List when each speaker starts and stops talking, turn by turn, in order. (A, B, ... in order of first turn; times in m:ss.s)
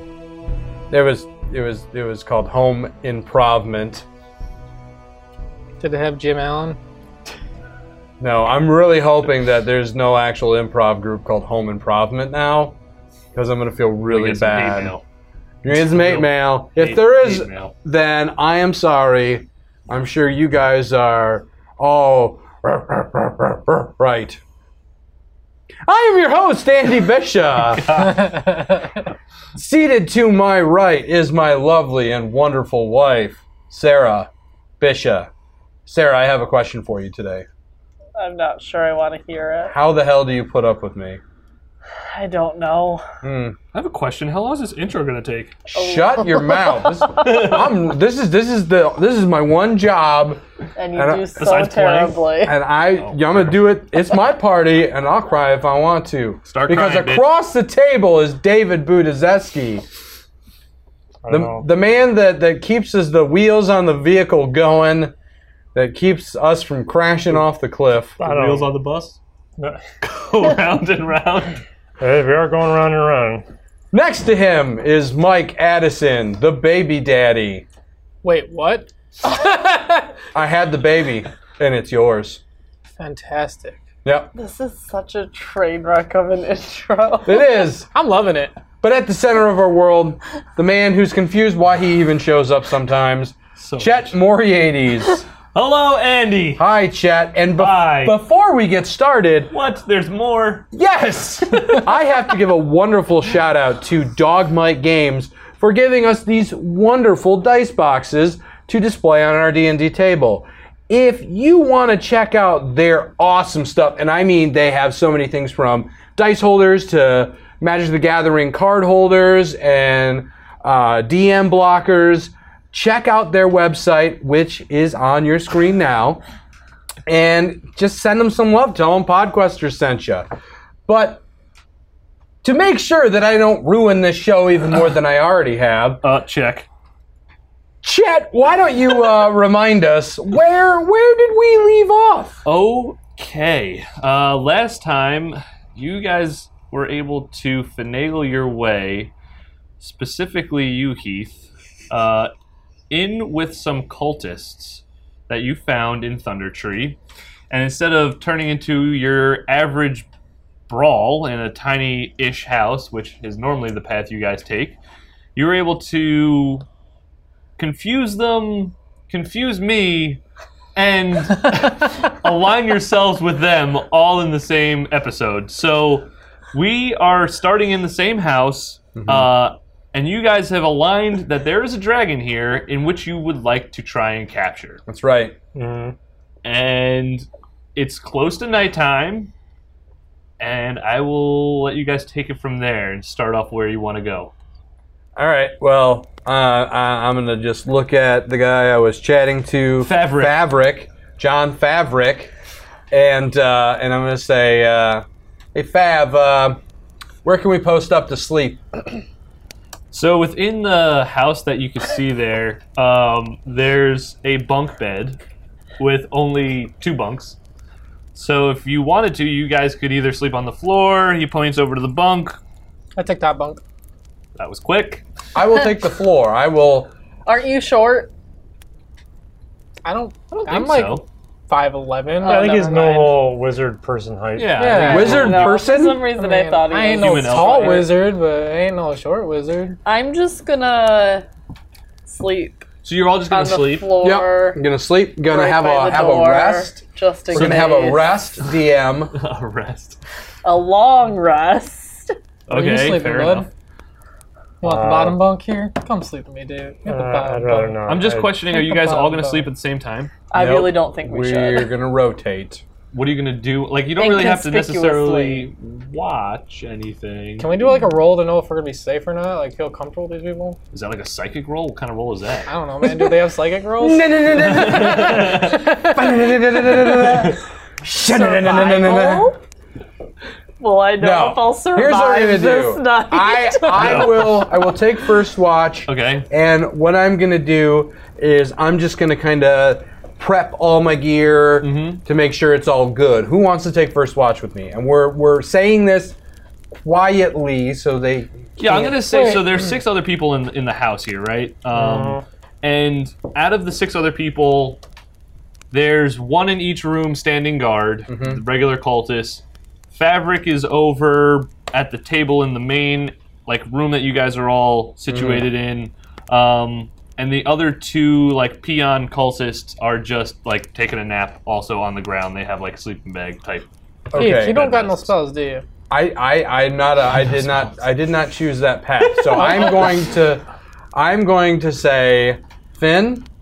0:00.9-0:04.0 A
0:05.8-0:06.8 B
0:08.2-0:12.8 A
0:13.3-0:15.0 A
0:14.1-0:15.0 C
0:15.6-0:24.4 A
0:15.7-0:17.7 C
0:25.8-0:28.3 A
0:27.7-0:28.5 C
0:29.5-0:35.3 A
0:35.8-0:37.4 A
0:38.2-0:39.7 D
0:39.7-0:41.2 A
0:42.1-0:43.0 D
0:43.2-0:43.6 A
0:43.7-0:45.6 C
0:45.7-0:50.4 A
0:45.7-0:47.4 D
0:47.2-0:47.7 C
0:50.8-0:52.5 D
0:50.9-0:51.3 A
0:51.4-0:52.2 C
0:52.4-0:59.8 A
0:52.9-0:53.5 C
0:56.5-0:57.3 C
1:01.2-1:01.6 E
1:01.3-1:05.1 A
1:05.7-1:08.2 A
1:08.2-1:08.7 E
1:08.2-1:09.2 C
1:10.0-1:11.6 C
1:12.0-1:13.4 E
1:13.9-1:17.6 A
1:18.2-1:20.1 B
1:20.3-1:22.4 A
1:23.0-1:23.8 B
1:24.0-1:24.3 A
1:24.3-1:27.4 D
1:27.2-1:27.9 A
1:27.9-1:28.5 B
1:28.8-1:35.2 A
1:33.6-1:34.1 C
1:35.5-1:36.6 C
1:36.6-1:39.5 A
1:37.6-1:38.2 C
1:39.5-1:40.7 C
1:40.7-2:06.2 A
2:07.1-2:10.3 A
2:10.9-2:11.2 A
2:12.4-2:16.0 A
2:16.0-2:16.7 C
2:17.8-2:22.4 A
2:22.4-2:29.1 C
2:29.8-2:32.3 C
2:32.9-2:37.0 C
2:37.5-2:40.1 C
2:40.7-2:44.8 C
2:45.3-2:46.6 C
2:47.6-2:50.2 C
2:50.7-3:04.8 C
2:58.9-2:59.3 A
3:04.9-3:05.3 A
3:05.5-3:05.9 E
3:06.4-3:09.3 C
3:10.4-3:14.3 C
3:15.2-3:22.3 A
3:19.8-3:20.4 C
3:22.9-3:26.6 A
3:27.2-3:29.0 A
3:29.9-3:35.2 C
3:35.8-3:37.4 C
3:38.1-3:42.4 C
3:43.0-3:43.6 B
3:44.4-3:45.0 C
3:45.3-3:46.9 A
3:47.2-3:48.1 D
3:49.8-3:52.7 B
3:50.3-3:51.0 C
3:52.2-3:53.2 D
3:52.2-3:55.1 E
3:54.4-3:55.6 C
3:54.6-3:55.3 B
3:54.8-3:56.1 A
3:55.0-3:57.8 D
3:56.2-3:59.8 B
3:56.9-3:57.9 C
3:59.8-4:01.2 D
4:02.1-4:02.7 D
4:02.8-4:03.9 C
4:03.3-4:04.6 D
4:04.0-4:09.1 A
4:05.3-4:08.2 D
4:07.3-4:07.6 C
4:09.1-4:10.0 C
4:10.4-4:12.1 D
4:12.5-4:13.5 C
4:12.5-4:13.5 B
4:14.6-4:15.2 E
4:14.6-4:17.8 B
4:16.8-4:18.4 E
4:17.9-4:20.1 C
4:18.5-4:19.5 B
4:20.3-4:21.7 D
4:20.3-4:22.6 A
4:22.9-4:27.6 C
4:24.0-4:25.5 D
4:27.4-4:30.6 B
4:30.7-4:32.5 C
4:32.4-4:36.0 B
4:32.8-4:33.2 A
4:33.8-4:39.3 A
4:34.3-4:35.8 C
4:36.8-4:37.4 C
4:38.0-4:39.4 D
4:40.6-4:44.1 D
4:41.0-4:56.2 A
4:43.7-4:44.5 C
4:45.9-4:46.3 C
4:51.6-4:52.0 C
4:56.8-4:59.0 A
4:58.6-5:04.8 C
4:58.7-4:59.7 B
5:01.7-5:02.2 E
5:05.7-5:25.1 C
5:08.1-5:08.4 A
5:15.1-5:15.5 A
5:24.1-5:24.6 A
5:24.1-5:25.6 B
5:25.9-5:30.4 A
5:29.1-5:29.9 C
5:29.3-5:29.9 B
5:30.9-5:33.3 A